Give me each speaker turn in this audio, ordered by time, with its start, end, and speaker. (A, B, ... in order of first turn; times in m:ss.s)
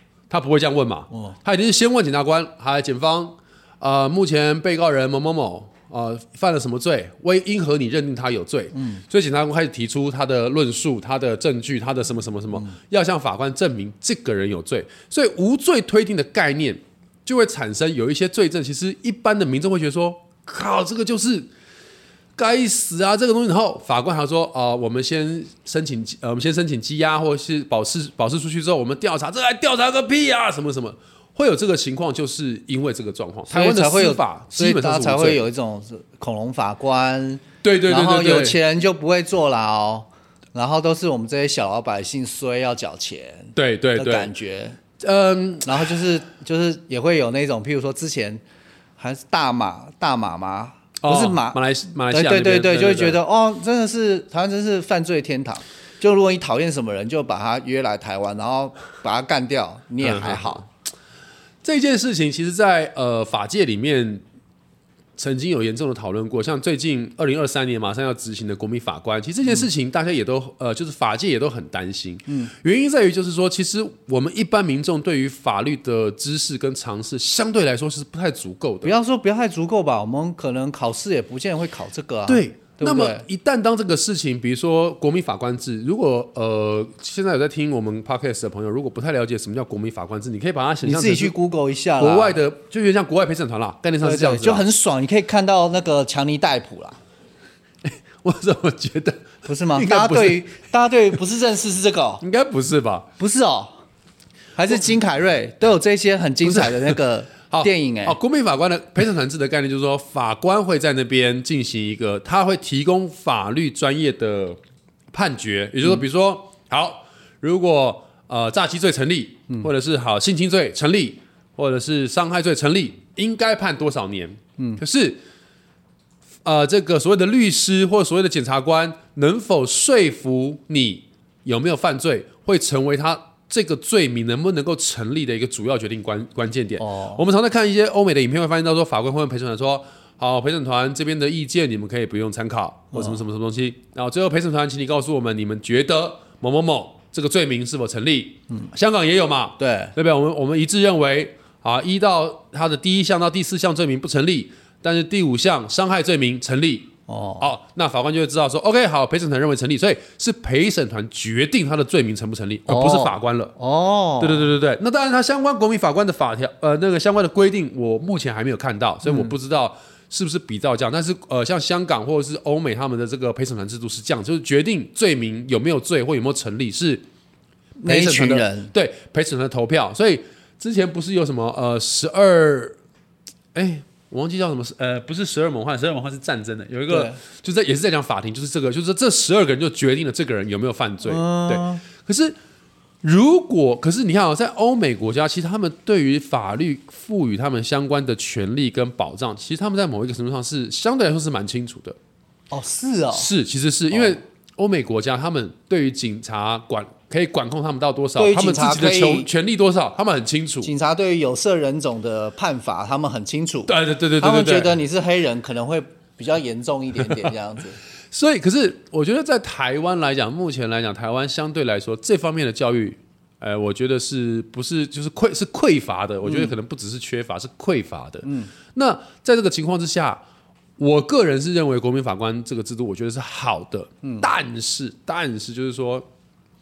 0:00.3-0:21.5 A
0:08.8-0:09.0 B
0:22.4-0:35.4 A
0:33.5-0:44.8 B
0:37.6-0:38.6 A
0:43.6-0:44.3 A
0:45.0-0:46.0 A
0:45.6-0:48.4 B
0:49.0-1:00.6 B
0:51.0-0:53.2 A
1:00.0-1:00.6 A
1:01.6-1:04.2 A
1:05.2-1:19.0 A
1:18.8-1:23.2 B
1:22.3-1:31.4 A
1:30.8-1:32.4 B
1:32.0-1:34.7 A
1:34.0-1:37.0 B
1:37.8-1:40.6 A
1:39.4-1:42.2 B
1:42.2-1:43.1 A
1:43.2-1:43.8 B
1:44.6-1:48.2 B
1:46.4-1:54.6 A
1:55.1-2:05.2 A
2:06.4-2:43.6 A
2:16.8-2:17.2 B
2:22.9-2:23.2 B
2:29.6-2:29.9 B
2:37.1-2:37.5 B
2:42.7-2:44.5 B
2:44.2-2:57.0 A
2:49.0-2:49.3 B
2:57.8-2:58.7 B
2:57.8-3:02.8 A
3:03.5-3:12.4 A
3:06.9-3:07.2 B
3:11.0-3:11.8 B
3:13.0-3:22.0 A
3:22.5-3:23.3 B
3:23.1-3:30.7 A
3:23.9-3:24.2 B
3:28.2-3:29.3 B
3:30.6-3:37.8 B
3:33.7-3:34.8 A
3:38.1-3:50.2 A
3:46.2-3:46.5 B
3:48.3-3:48.5 B
3:50.8-3:56.1 A